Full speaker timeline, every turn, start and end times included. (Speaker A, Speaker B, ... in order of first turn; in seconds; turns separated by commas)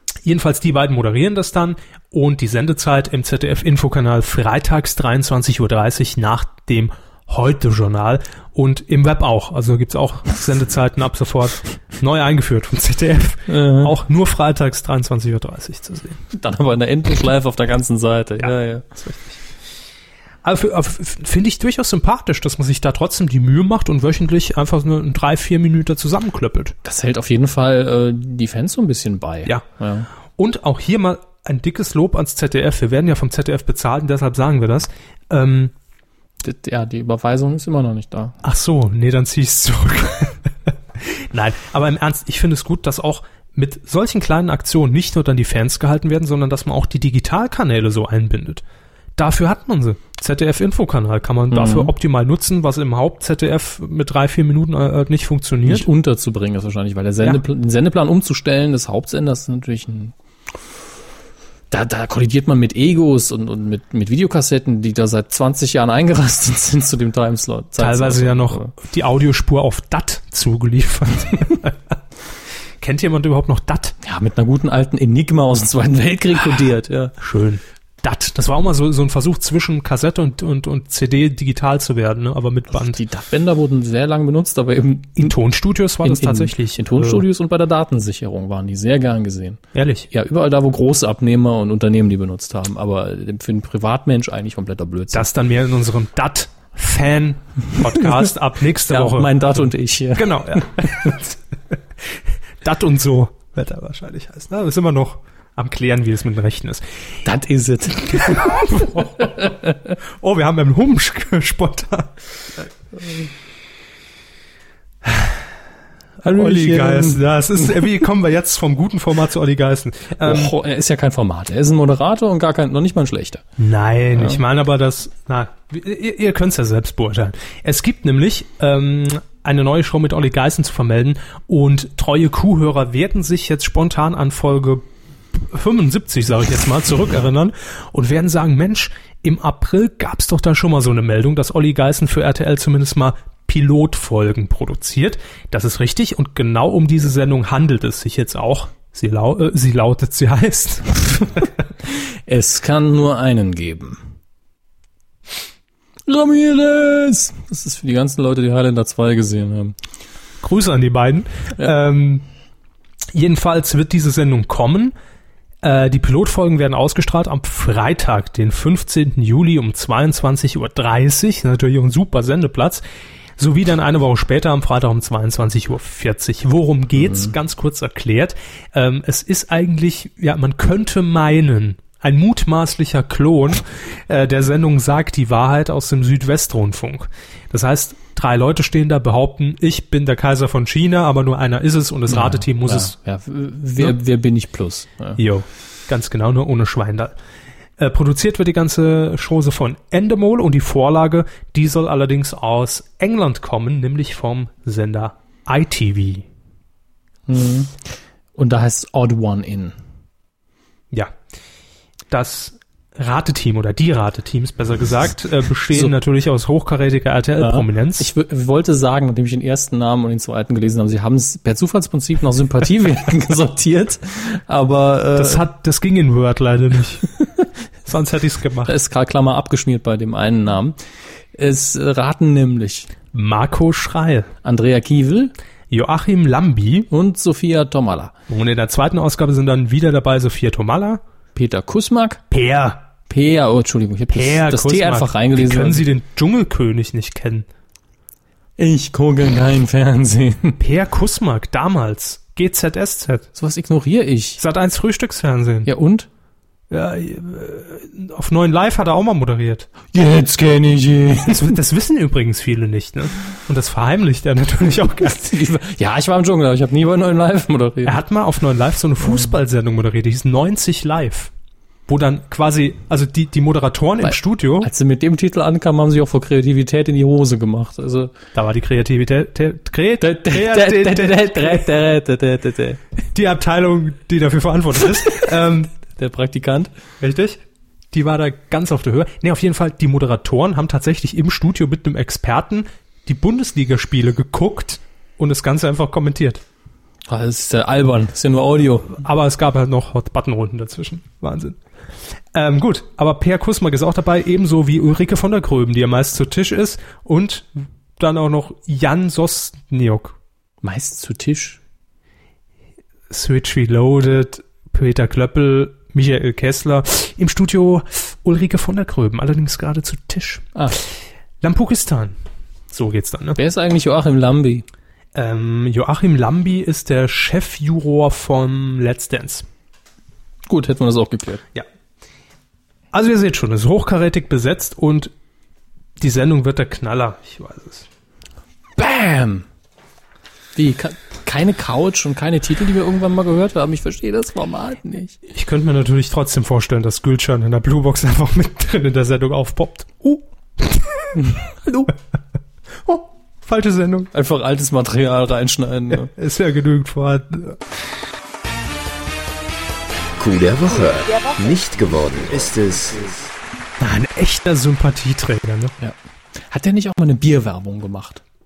Speaker A: 0.2-16.2, Speaker B: 13.5-13.9, Speaker B: 16.3-18.9, Speaker A: 18.4-19.3, Speaker A: 20.4-26.7, Speaker B: 26.8-30.1, Speaker A: 30.4-35.7, Speaker B: 36.4-38.4, Speaker A: 38.4-40.4, Speaker A: 41.0-48.6, Speaker A: 49.2-55.9, Speaker B: 51.5-51.9, Speaker B: 55.6-60.1, Speaker B: 61.7-68.7, Speaker A: 67.8-71.7, Speaker A: 72.8-73.9, Speaker B: 74.0-77.1, Speaker A: 77.2-83.0, Speaker B: 82.7-85.3, Speaker A: 85.2-87.2, Speaker B: 86.0-95.3, Speaker A: 89.7-90.1, Speaker A: 95.1-101.4, Speaker B: 98.0-98.3, Speaker B: 98.9-101.1, Speaker A: 102.6-106.8, Speaker B: 107.2-109.5, Speaker A: 108.1-109.5, Speaker A: 110.2-112.1, Speaker A: 116.2-120.5, Speaker B: 116.2-117.9, Speaker B: 120.2-123.4, Speaker A: 123.6-151.4, Speaker B: 124.1-124.4, Speaker B: 151.8-154.0, Speaker B: 156.1-159.8, Speaker A: 160.4-162.2, Speaker A: 163.1-164.9, Speaker A: 165.6-172.8, Speaker A: 173.4-192.9, Speaker B: 177.0-177.3, Speaker B: 192.1-195.2, Speaker A: 195.2-197.2, Speaker A: 197.8-206.2, Speaker B: 207.3-209.7, Speaker A: 212.1-218.1, Speaker B: 217.4-225.4, Speaker A: 225.2-227.0, Speaker A: 227.8-228.7, Speaker B: 228.7-230.8, Speaker B: 231.3-232.9, Speaker A: 233.1-234.3, Speaker B: 234.4-235.3, Speaker A: 235.7-236.9, Speaker B: 236.9-238.1, Speaker A: 238.3-241.0, Speaker B: 241.3-242.2, Speaker A: 242.3-242.9, Speaker B: 243.1-245.8, Speaker A: 244.1-247.4, Speaker B: 248.6-250.6, Speaker A: 250.6-253.3, Speaker B: 253.3-254.4, Speaker A: 254.4-255.7, Speaker B: 255.6-256.1, Speaker A: 256.7-259.7, Speaker B: 259.9-261.6, Speaker A: 261.2-265.4, Speaker B: 265.0-268.0, Speaker A: 267.8-271.3, Speaker B: 269.0-269.3, Speaker A: 271.9-274.7, Speaker B: 274.0-278.1, Speaker A: 278.3-281.7, Speaker B: 280.0-282.8, Speaker A: 283.1-285.7, Speaker B: 285.9-286.7, Speaker A: 287.0-287.4, Speaker A: 287.9-296.4, Speaker B: 297.1-299.0, Speaker A: 299.0-301.6, Speaker A: 302.3-310.1, Speaker B: 310.6-311.6, Speaker A: 313.1-320.5, Speaker A: 321.4-322.1, Speaker A: 322.7-323.4, Speaker B: 323.4-324.6, Speaker A: 325.1-329.4, Speaker B: 330.5-331.4, Speaker A: 332.9-335.1, Speaker A: 336.0-337.9, Speaker B: 338.8-339.4, Speaker B: 340.5-345.2, Speaker A: 345.3-351.1, Speaker B: 351.1-351.9, Speaker A: 352.9-354.1, Speaker B: 354.1-356.1, Speaker A: 356.1-357.6, Speaker C: 360.2-363.3, Speaker A: 363.8-365.7, Speaker B: 365.8-368.2